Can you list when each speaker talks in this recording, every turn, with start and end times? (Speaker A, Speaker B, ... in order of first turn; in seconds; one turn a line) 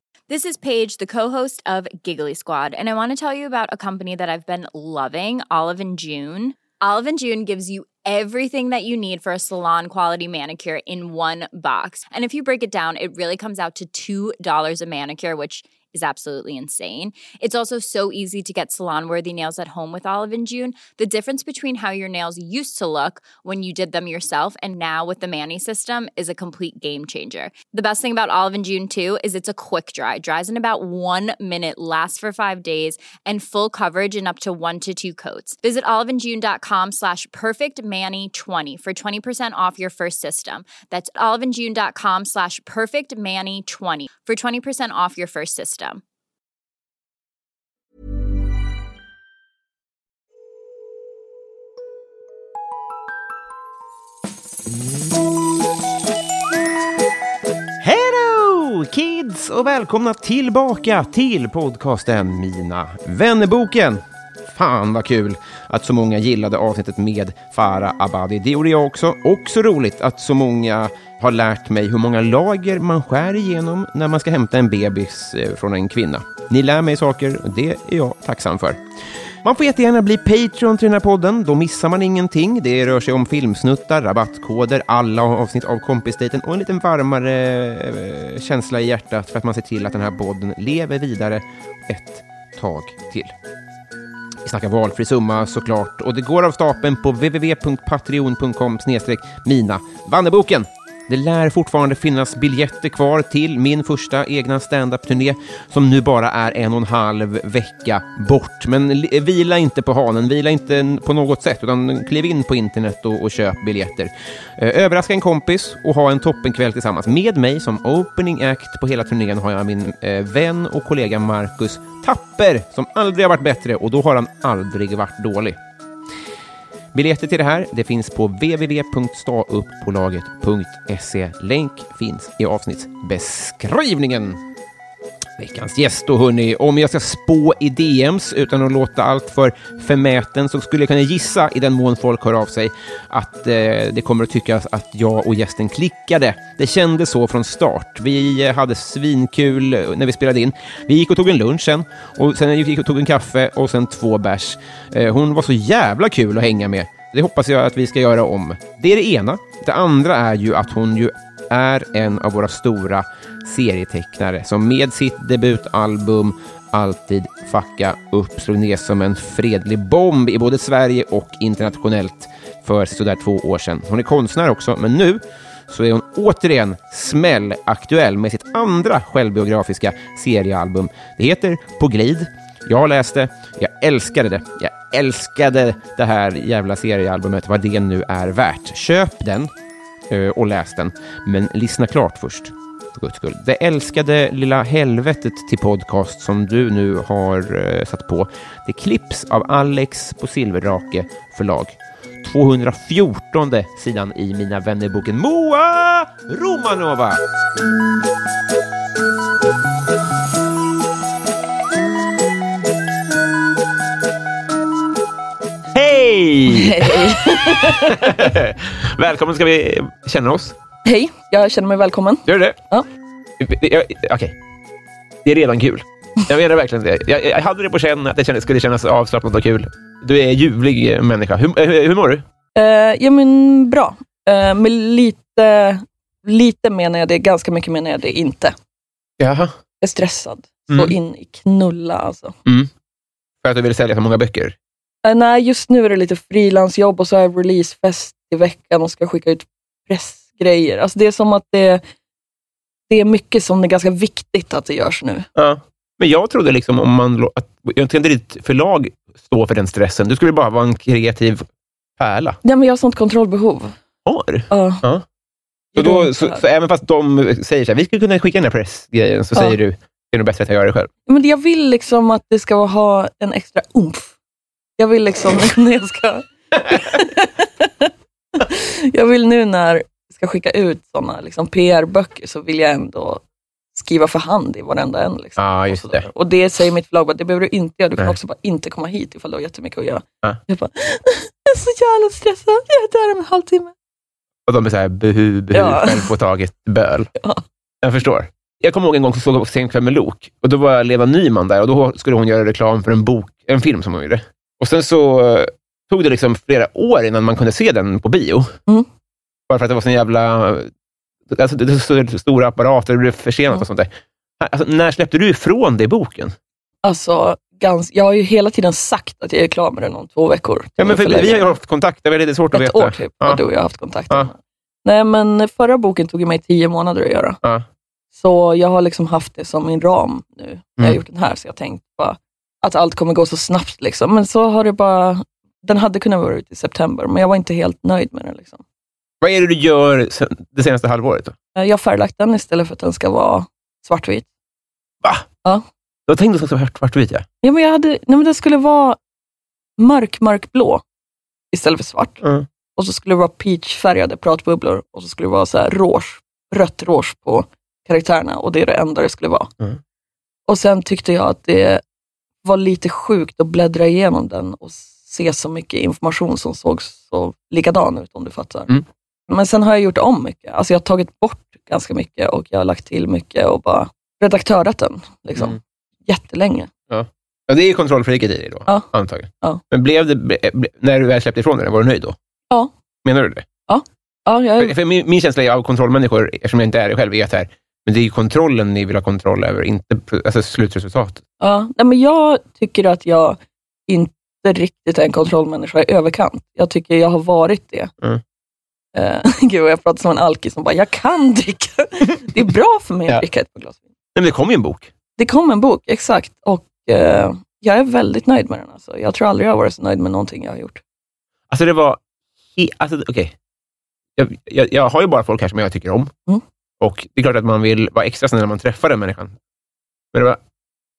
Speaker A: 0.3-46.0
Speaker B: 57.8-78.8
Speaker B: 79.4-93.3
Speaker B: 94.4-125.6
Speaker B: 126.9-134.4
Speaker B: 135.4-189.5
Speaker B: 190.1-207.2
Speaker B: 215.7-220.6
Speaker C: 216.5-218.3
Speaker C: 220.8-222.9
Speaker B: 222.3-222.6
Speaker B: 223.4-224.4
Speaker B: 225.2-232.2
Speaker C: 232.6-238.6
Speaker B: 239.2-239.6
Speaker C: 239.8-242.3
Speaker B: 240.7-240.9
Speaker B: 242.4-242.7
Speaker B: 243.4-244.6
Speaker C: 245.0-251.8
Speaker C: 252.9-255.3
Speaker B: 255.4-261.5
Speaker B: 262.0-262.4
Speaker C: 262.4-263.8
Speaker B: 264.1-265.1
Speaker C: 264.5-264.8
Speaker C: 265.8-266.4
Speaker B: 265.8-270.9
Speaker C: 271.1-274.1
Speaker C: 274.8-283.2
Speaker C: 283.8-293.7
Speaker B: 285.4-286.1
Speaker B: 294.5-297.1
Speaker C: 295.5-296.1
Speaker B: 297.8-308.5
Speaker B: 309.5-310.7
Speaker B: 311.3-316.4
Speaker C: 316.8-321.5
Speaker B: 320.8-323.4
Speaker C: 322.5-327.4
Speaker C: 328.1-338.6
Speaker B: 339.2-341.4
Speaker C: 341.6-344.3
Speaker B: 346.1-347.3
Speaker C: 347.4-349.0
Speaker C: 349.8-350.8
Speaker C: 351.5-352.2
Speaker C: 352.8-359.5
Speaker C: 360.5-361.8
Speaker C: 362.4-368.7
Speaker C: 369.3-376.7
Speaker B: 376.9-382.2
Speaker B: 383.0-383.5
Speaker C: 383.7-384.8
Speaker B: 384.6-391.2
Speaker C: 391.4-397.9
Speaker C: 398.9-403.9
Speaker B: 404.1-404.9
Speaker C: 405.2-410.8
Speaker B: 411.5-412.0
Speaker B: 412.5-413.4
Speaker B: 414.2-416.1
Speaker B: 416.8-419.4
Speaker B: 420.1-420.4